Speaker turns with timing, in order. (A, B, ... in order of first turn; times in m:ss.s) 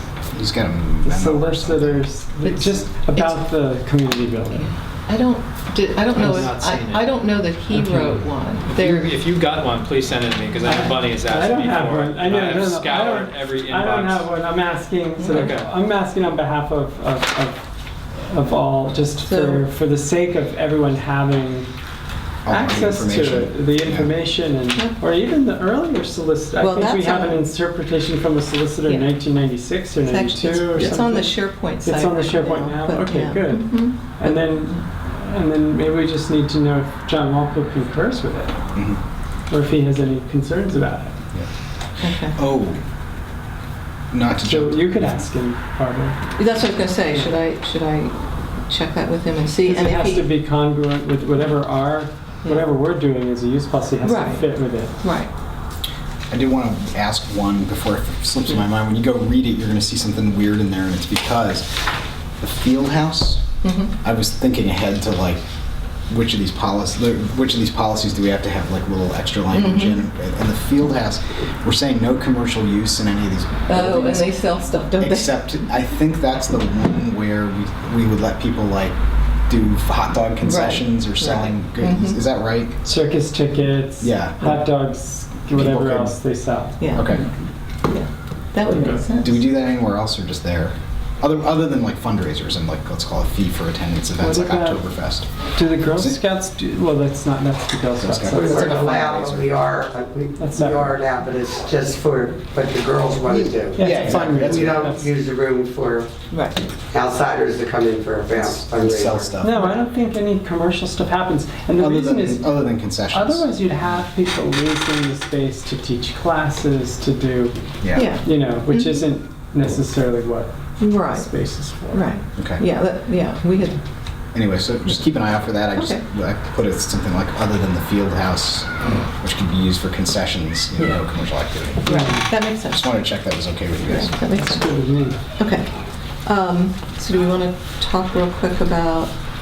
0:00.3-0:02.8 A
0:01.0-0:04.7 B
0:03.1-0:03.4 C
0:04.5-0:09.1 C
0:06.1-0:07.2 D
0:06.2-0:06.5 B
0:07.7-0:08.2 B
0:08.7-0:14.3 D
0:10.6-0:17.6 B
0:15.2-0:15.5 C
0:15.2-0:15.7 D
0:18.2-0:21.7 B
0:19.2-0:19.6 C
0:22.4-0:24.1 A
0:22.5-0:38.6 B
0:26.6-0:27.4 C
0:30.0-0:34.8 C
0:39.5-0:41.2 B
0:42.0-0:42.3 C
0:42.2-0:42.8 A
0:44.1-0:45.2 A
0:44.4-0:46.2 B
0:46.4-0:48.1 C
0:48.7-0:50.3 C
0:49.6-0:55.0 B
0:54.0-0:55.3 C
0:56.3-1:01.7 A
1:02.4-1:05.4 A
1:03.6-1:03.9 C
1:06.1-1:14.3 A
1:09.5-1:10.0 C
1:13.7-1:15.6 C
1:15.0-1:19.0 A
1:19.5-1:22.8 A
1:20.4-1:22.2 C
1:22.8-1:26.8 B
1:24.0-1:24.6 A
1:25.5-1:26.2 A
1:26.8-1:27.3 C
1:26.9-1:27.2 A
1:27.9-1:29.4 C
1:28.7-1:29.0 B
1:29.2-1:35.3 A
1:34.2-1:34.8 B
1:35.5-1:39.0 B
1:35.8-1:36.2 A
1:38.0-1:39.5 A
1:38.3-1:46.1 E
1:40.4-1:41.0 B
1:43.7-1:44.9 A
1:43.7-1:45.1 B
1:46.3-1:46.6 C
1:46.9-1:49.3 E
1:48.4-1:49.6 A
1:49.4-1:52.6 B
1:51.7-1:54.0 A
1:53.1-2:02.1 B
1:57.8-1:58.1 A
1:57.9-1:59.0 C
2:00.8-2:01.3 C
2:01.9-2:03.8 C
2:02.4-2:02.6 A
2:04.3-2:12.0 A
2:05.7-2:06.0 C
2:11.8-2:13.0 C
2:11.8-2:12.3 B
2:12.7-2:14.1 A
2:13.8-2:14.7 C
2:14.2-2:15.2 B
2:15.4-2:15.7 C
2:16.2-2:19.1 C